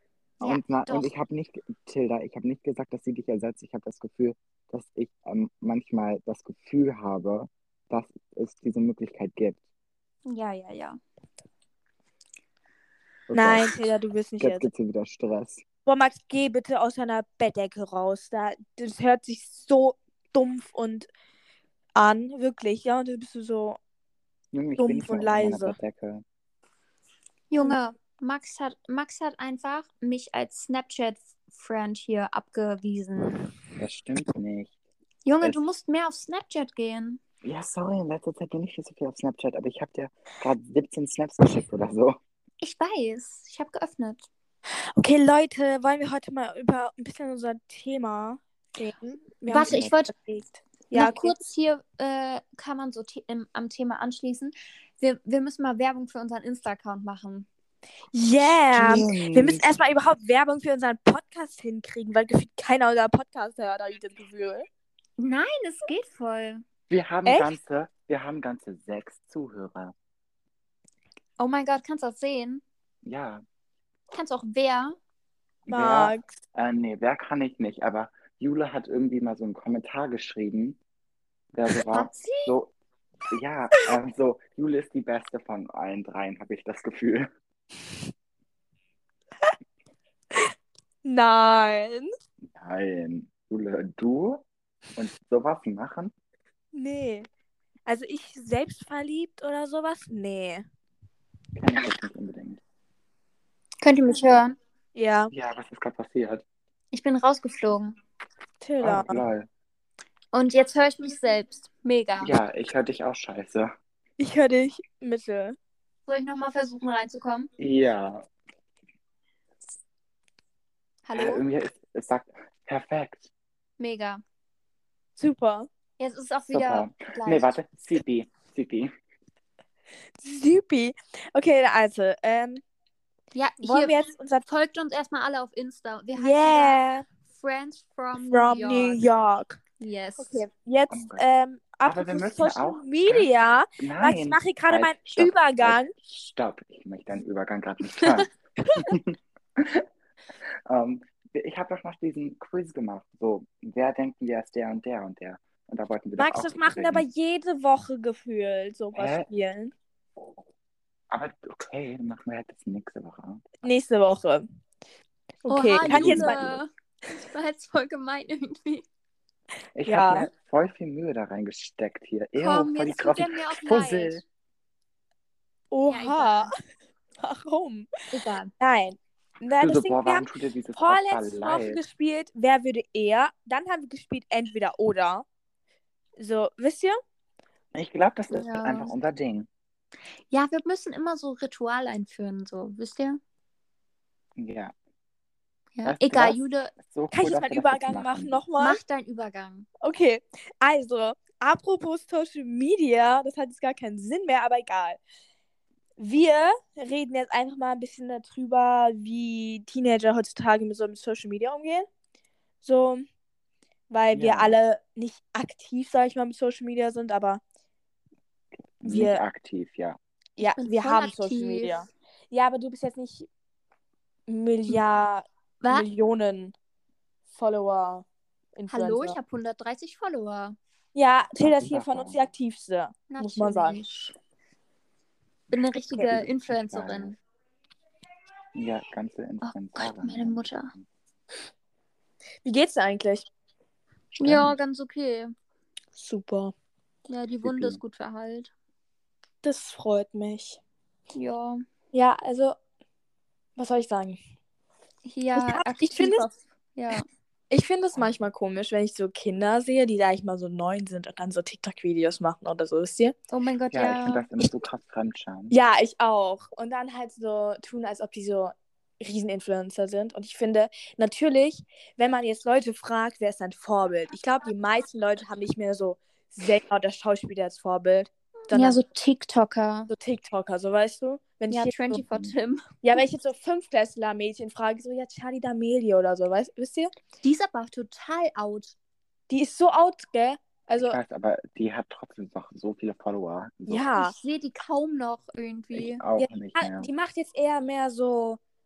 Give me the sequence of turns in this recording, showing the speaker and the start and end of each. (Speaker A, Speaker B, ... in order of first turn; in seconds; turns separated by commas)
Speaker A: 0.4-1.1, Speaker B: 0.4-9.6, Speaker A: 10.2-11.0, Speaker B: 13.3-13.8, Speaker C: 13.3-14.7, Speaker B: 14.4-15.6, Speaker C: 15.8-21.1, Speaker C: 21.9-23.8, Speaker B: 24.5-26.2, Speaker C: 24.8-25.8, Speaker A: 27.5-33.4, Speaker B: 33.8-34.7, Speaker A: 35.2-37.2, Speaker B: 37.4-42.2, Speaker A: 42.6-44.3, Speaker C: 45.0-51.4, Speaker A: 49.4-50.1, Speaker B: 49.6-49.9, Speaker A: 50.9-57.5, Speaker C: 58.1-64.6, Speaker B: 58.7-59.7, Speaker A: 65.2-66.6, Speaker B: 66.9-69.9, Speaker C: 67.2-67.5, Speaker A: 71.4-72.6, Speaker B: 73.0-73.4, Speaker A: 74.1-75.0, Speaker B: 75.7-80.8, Speaker C: 75.7-76.3, Speaker B: 81.5-82.7, Speaker A: 81.9-82.5, Speaker B: 83.3-87.3, Speaker C: 91.0-92.1, Speaker B: 92.5-94.4, Speaker B: 95.0-96.1, Speaker C: 96.7-97.3, Speaker C: 97.8-100.6, Speaker B: 101.5-102.6, Speaker A: 103.8-104.6, Speaker C: 104.9-105.3, Speaker B: 105.3-106.4, Speaker A: 106.9-108.0, Speaker C: 108.6-109.2, Speaker B: 108.8-109.5, Speaker A: 110.3-112.3, Speaker B: 112.2-113.7, Speaker C: 114.2-115.5, Speaker A: 116.1-117.5, Speaker B: 117.6-118.2, Speaker A: 121.0-121.4, Speaker B: 121.1-123.3, Speaker A: 123.8-124.2, Speaker C: 125.2-125.7, Speaker A: 126.0-127.5, Speaker B: 126.5-128.9, Speaker C: 130.2-132.6, Speaker A: 133.3-136.8, Speaker C: 133.6-134.4, Speaker C: 136.2-137.0, Speaker A: 137.3-139.0, Speaker C: 138.3-139.6, Speaker A: 139.8-140.4, Speaker C: 140.2-145.9, Speaker B: 140.9-141.2, Speaker B: 141.8-143.3, Speaker B: 143.8-149.8, Speaker B: 150.7-157.0, Speaker C: 156.2-159.7, Speaker B: 158.9-159.3, Speaker B: 161.1-163.6, Speaker C: 163.6-164.4, Speaker C: 165.4-166.5, Speaker A: 165.5-168.8, Speaker B: 165.8-166.6, Speaker B: 169.8-174.2, Speaker C: 169.8-170.3, Speaker A: 172.3-174.2, Speaker C: 175.7-176.5, Speaker A: 175.9-176.5, Speaker C: 177.2-177.9, Speaker A: 178.1-178.5, Speaker C: 178.6-185.2, Speaker B: 179.6-181.8, Speaker C: 186.2-187.0, Speaker B: 187.7-189.5, Speaker A: 188.3-188.9, Speaker A: 190.3-193.2, Speaker B: 194.4-194.7, Speaker A: 195.8-196.7, Speaker B: 195.8-198.4, Speaker C: 197.1-198.8, Speaker A: 198.6-199.7, Speaker C: 199.8-205.0, Speaker C: 206.0-211.9, Speaker C: 212.6-213.0, Speaker C: 213.9-217.4, Speaker B: 214.1-214.6, Speaker B: 218.8-220.0, Speaker C: 218.8-219.2, Speaker C: 220.4-223.3, Speaker A: 220.4-221.9, Speaker C: 224.3-226.5, Speaker A: 225.6-225.9, Speaker C: 227.3-228.0, Speaker C: 228.6-229.2, Speaker A: 228.7-230.6, Speaker C: 230.9-233.8, Speaker B: 231.4-232.2, Speaker A: 233.1-234.1, Speaker A: 235.5-237.2, Speaker C: 235.8-236.1, Speaker B: 236.0-237.1, Speaker B: 238.5-240.8, Speaker A: 239.4-240.7, Speaker C: 242.4-243.3, Speaker A: 244.2-245.3, Speaker B: 244.2-244.5, Speaker C: 245.9-246.5, Speaker A: 247.1-248.5, Speaker B: 247.4-247.8, Speaker C: 249.4-250.6, Speaker A: 251.1-251.6, Speaker C: 251.9-252.6, Speaker C: 253.6-254.2, Speaker A: 255.0-257.0, Speaker C: 255.3-256.2, Speaker C: 257.5-263.1, Speaker A: 263.3-264.3, Speaker B: 263.7-265.5, Speaker C: 265.5-278.8, Speaker A: 278.5-279.9, Speaker C: 279.9-282.0, Speaker A: 281.5-283.0, Speaker B: 281.9-282.3, Speaker C: 282.8-286.9, Speaker A: 287.2-288.7, Speaker C: 289.3-291.0, Speaker B: 290.8-293.9, Speaker C: 293.7-294.1, Speaker A: 293.9-296.0, Speaker B: 295.7-296.9, Speaker C: 296.2-298.4